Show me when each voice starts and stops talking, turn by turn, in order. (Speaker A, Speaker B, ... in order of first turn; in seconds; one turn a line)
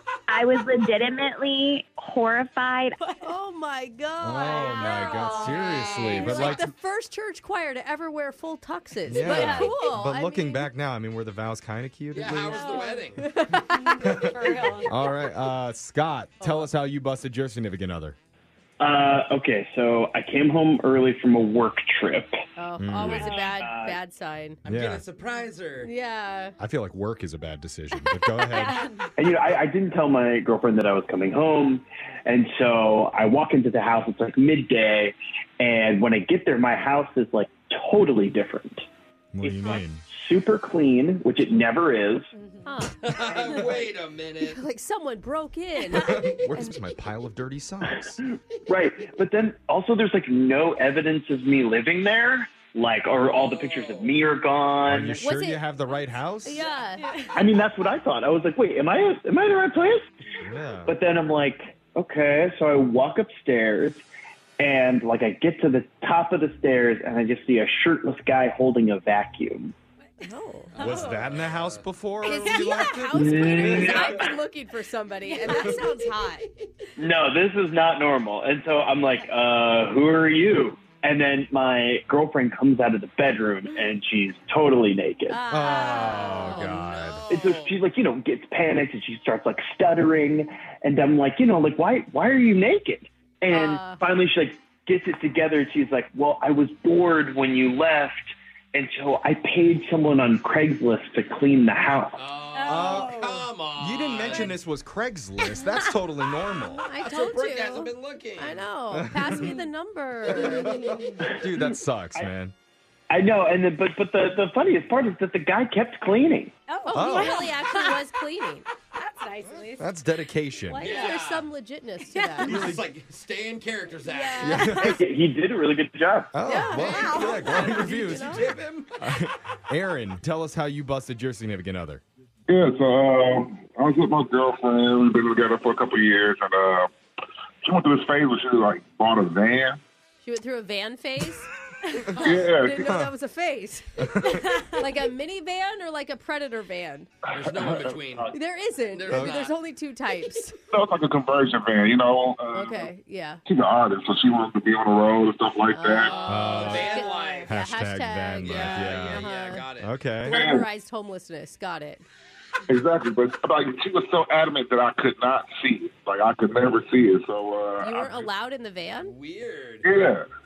Speaker A: 0.3-3.0
Speaker B: 3.0-3.3
Speaker C: 3.2-10.7
Speaker D: 4.2-6.7
Speaker B: 4.7-6.2
Speaker E: 5.7-6.6
Speaker D: 9.1-12.9
Speaker B: 9.2-9.7
Speaker E: 12.1-13.3
Speaker B: 12.4-15.1
Speaker C: 13.2-14.1
Speaker D: 14.0-18.2
Speaker C: 16.4-16.7
Speaker F: 18.8-22.4
Speaker C: 22.6-24.6
Speaker D: 22.8-23.4
Speaker B: 23.1-23.5
Speaker F: 23.5-24.0
Speaker E: 24.6-25.9
Speaker D: 24.7-25.0
Speaker C: 25.8-26.5
Speaker D: 26.6-28.9
Speaker C: 28.5-28.8
Speaker B: 28.5-29.1
Speaker F: 29.2-38.8
Speaker D: 39.3-40.0
Speaker F: 39.4-42.3
Speaker B: 42.4-43.7
Speaker C: 42.6-43.8
Speaker E: 43.0-44.6
Speaker C: 44.4-46.1
Speaker D: 45.9-48.2
Speaker F: 48.2-55.2
Speaker E: 53.2-54.1
Speaker D: 54.9-56.6
Speaker C: 55.2-55.6
Speaker C: 56.4-57.1
Speaker B: 57.0-57.6
Speaker F: 57.3-60.1
Speaker D: 60.4-60.9
Speaker F: 60.9-64.0
Speaker F: 64.6-69.7
Speaker B: 70.2-71.2
Speaker C: 70.2-70.7
Speaker E: 70.7-71.8
Speaker D: 70.8-73.8
Speaker C: 72.2-76.4
Speaker B: 72.5-72.9
Speaker F: 73.1-74.3
Speaker E: 73.7-74.2
Speaker B: 75.2-76.5
Speaker F: 77.0-85.4
Speaker C: 85.3-86.8
Speaker D: 85.5-87.2
Speaker B: 85.7-86.5
Speaker E: 86.0-87.7
Speaker F: 87.3-102.2
Speaker C: 93.5-94.0
Speaker E: 102.2-104.6
Speaker B: 102.5-103.5
Speaker D: 102.6-106.8
Speaker C: 106.7-110.7
Speaker E: 107.0-108.7
Speaker D: 108.9-109.5
Speaker B: 109.2-109.6
Speaker D: 110.3-110.6
Speaker E: 110.3-110.7
Speaker B: 110.5-111.3
Speaker D: 111.2-112.5
Speaker F: 111.6-112.3
Speaker F: 113.1-116.5
Speaker B: 116.7-118.0
Speaker C: 116.9-118.7
Speaker D: 116.9-117.6
Speaker B: 118.9-119.9
Speaker D: 119.5-120.8
Speaker B: 120.7-121.2
Speaker E: 120.8-121.5
Speaker C: 120.8-122.6
Speaker B: 122.0-122.6
Speaker E: 122.4-124.7
Speaker D: 122.4-122.8
Speaker B: 124.1-125.0
Speaker D: 124.4-125.0
Speaker F: 124.8-126.3
Speaker D: 126.3-132.0
Speaker C: 126.4-128.5
Speaker B: 126.7-127.7
Speaker E: 126.7-129.1
Speaker G: 132.5-136.9
Speaker G: 137.7-139.8
Speaker C: 140.2-141.5
Speaker C: 142.1-147.1
Speaker G: 142.2-142.8
Speaker D: 142.8-143.1
Speaker D: 144.0-144.4
Speaker B: 144.3-144.8
Speaker E: 147.3-148.3
Speaker C: 148.3-150.5
Speaker E: 148.9-149.5
Speaker D: 149.1-149.4
Speaker G: 150.7-152.9
Speaker C: 152.5-153.4
Speaker G: 153.5-156.2
Speaker C: 155.7-159.7
Speaker E: 156.0-157.5
Speaker D: 156.3-160.4
Speaker E: 158.4-160.0
Speaker C: 160.2-162.0
Speaker G: 160.3-160.7
Speaker G: 162.7-168.2
Speaker C: 167.8-169.1
Speaker E: 169.0-169.9
Speaker G: 169.8-170.2